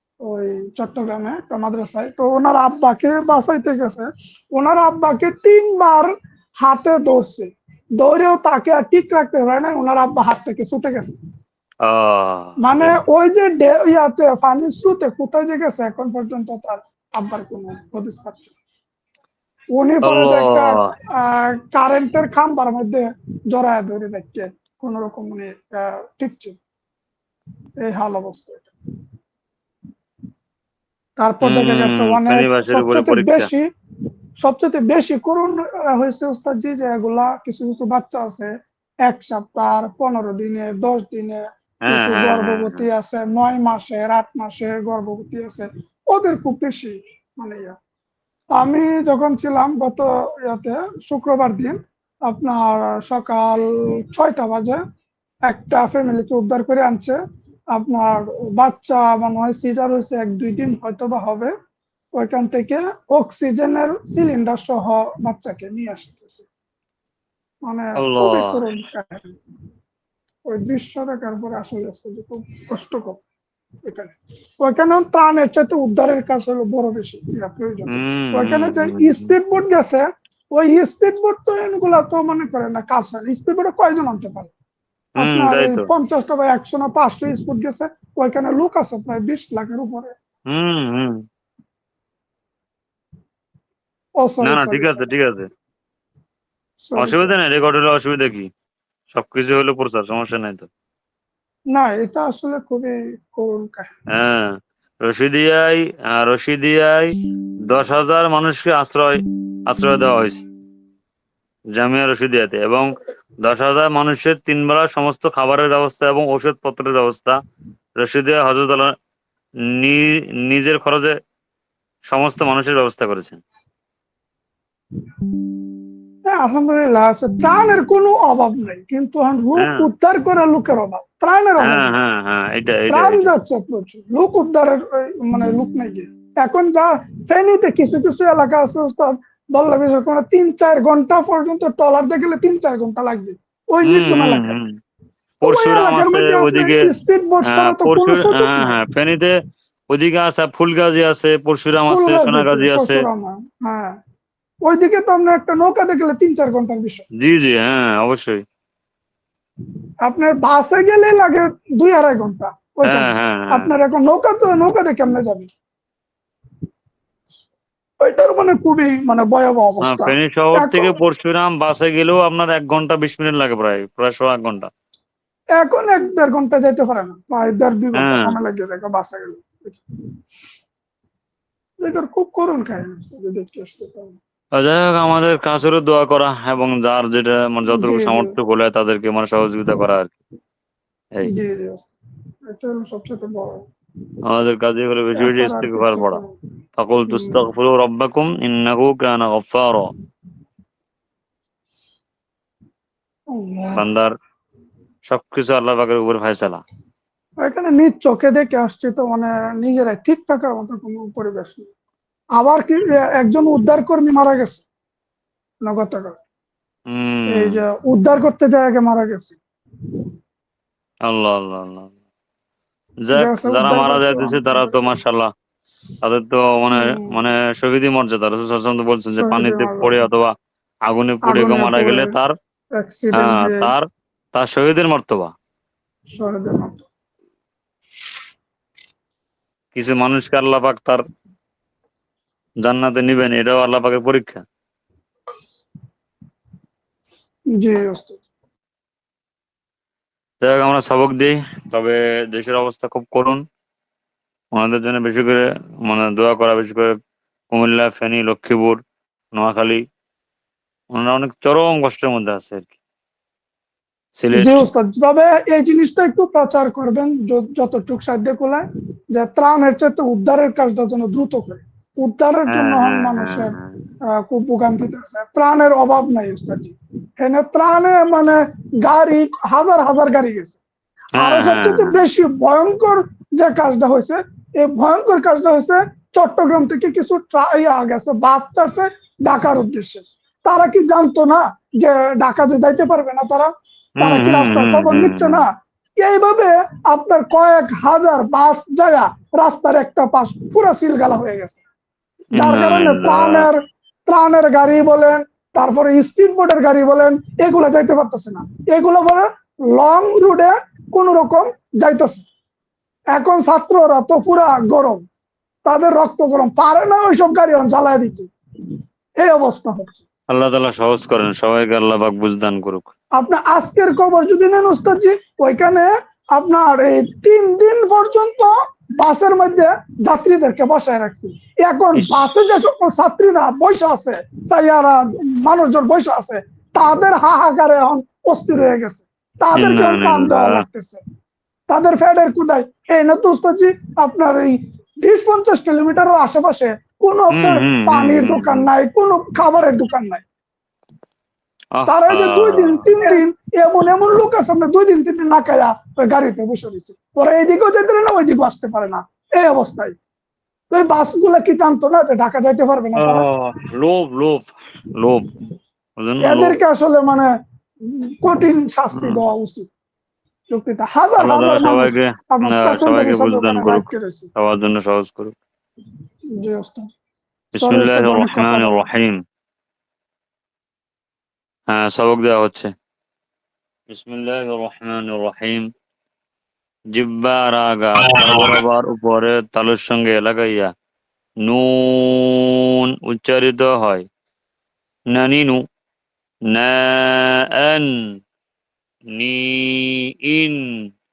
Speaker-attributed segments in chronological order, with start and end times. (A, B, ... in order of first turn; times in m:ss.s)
0:00.2-0:06.1 A
0:06.6-0:11.2 A
0:11.8-0:12.9 B
0:12.6-0:18.6 A
0:19.8-0:26.6 A
0:20.0-0:20.8 B
0:27.8-0:28.7 A
0:31.2-0:33.6 A
0:31.4-0:33.5 B
0:34.4-0:38.5 A
0:39.1-0:47.8 A
0:41.8-0:42.8 B
0:48.6-0:54.8 A
0:55.5-0:57.2 A
0:57.8-1:01.5 A
1:02.2-1:06.4 A
1:07.7-1:09.3 A
1:08.0-1:08.6 B
1:10.5-1:13.2 A
1:13.8-1:24.5 A
1:17.9-1:19.3 B
1:25.2-1:25.9 B
1:25.2-1:30.1 A
1:30.5-1:31.2 B
1:34.2-1:35.1 A
1:34.4-1:35.5 B
1:36.8-1:37.3 A
1:37.0-1:38.5 B
1:39.1-1:40.7 B
1:41.7-1:43.9 A
1:44.1-1:47.1 B
1:47.7-1:50.4 B
1:51.8-1:52.9 B
1:53.4-1:57.4 B
1:58.0-1:58.9 B
1:59.8-2:01.2 B
2:02.1-2:03.4 B
2:06.3-2:11.9 A
2:09.6-2:09.8 B
2:11.6-2:13.3 B
2:12.9-2:24.6 A
2:23.8-2:24.8 B
2:25.4-2:28.7 A
2:25.4-2:26.8 B
2:27.5-2:29.3 B
2:29.9-2:33.1 B
2:31.9-2:34.0 A
2:34.6-2:37.0 A
2:37.2-2:38.4 B
2:40.1-2:45.5 A
2:42.9-2:43.7 B
2:48.0-2:50.9 A
2:49.8-2:54.7 B
2:55.6-2:59.8 A
2:58.0-2:58.3 B
3:01.8-3:04.2 A
3:04.6-3:10.1 B
3:07.7-3:08.3 A
3:11.3-3:11.9 A
3:12.4-3:13.6 A
3:14.2-3:16.2 B
3:15.2-3:16.3 A
3:16.8-3:19.9 B
3:17.1-3:17.4 A
3:23.3-3:23.8 A
3:23.8-3:24.1 B
3:25.1-3:26.6 B
3:27.4-3:31.7 A
3:32.4-3:34.6 A
3:35.6-3:36.2 A
3:36.9-3:37.6 B
3:37.3-3:39.4 A
3:41.1-3:41.9 B
3:43.1-3:45.3 B
3:43.1-3:44.8 A
3:46.0-3:50.3 B
3:46.7-3:47.1 A
3:49.2-3:49.9 A
3:50.9-3:52.3 B
3:51.2-3:52.2 A
3:52.8-3:53.7 A
3:53.1-3:55.3 B
3:56.1-3:56.9 A
3:59.8-4:01.0 B
4:02.6-4:04.4 B
4:07.6-4:08.2 A
4:10.4-4:13.4 B
4:14.5-4:16.9 B
4:17.5-4:18.8 B
4:19.3-4:19.8 B
4:20.9-4:22.7 B
4:24.2-4:24.7 B
4:24.4-4:28.6 A
4:29.2-4:33.6 A
4:32.5-4:33.7 B
4:34.2-4:40.6 A
4:41.2-4:41.9 B
4:41.2-4:55.5 A
4:54.0-4:55.4 B
4:56.0-5:01.6 A
5:02.4-5:12.2 A
5:02.4-5:03.5 B
5:13.1-5:15.0 A
5:15.6-5:18.3 A
5:19.2-5:20.0 A
5:20.3-5:22.9 B
5:23.2-5:41.0 A
5:32.0-5:32.3 B
5:39.6-5:40.6 B
5:41.7-5:50.2 A
5:47.3-5:48.7 B
5:51.8-5:52.9 B
5:51.9-6:00.0 A
6:00.7-6:03.3 A
6:03.0-6:04.4 B
6:05.0-6:05.3 B
6:06.0-6:06.6 B
6:06.2-6:07.3 A
6:08.2-6:09.7 A
6:08.9-6:09.2 B
6:10.5-6:14.3 A
6:11.2-6:15.4 B
6:16.4-6:16.9 A
6:17.6-6:19.2 B
6:17.6-6:18.8 A
6:21.7-6:22.7 B
6:23.9-6:25.6 B
6:26.9-6:30.7 B
6:31.4-6:34.0 B
6:35.1-6:35.6 B
6:36.5-6:38.0 B
6:39.1-6:40.6 B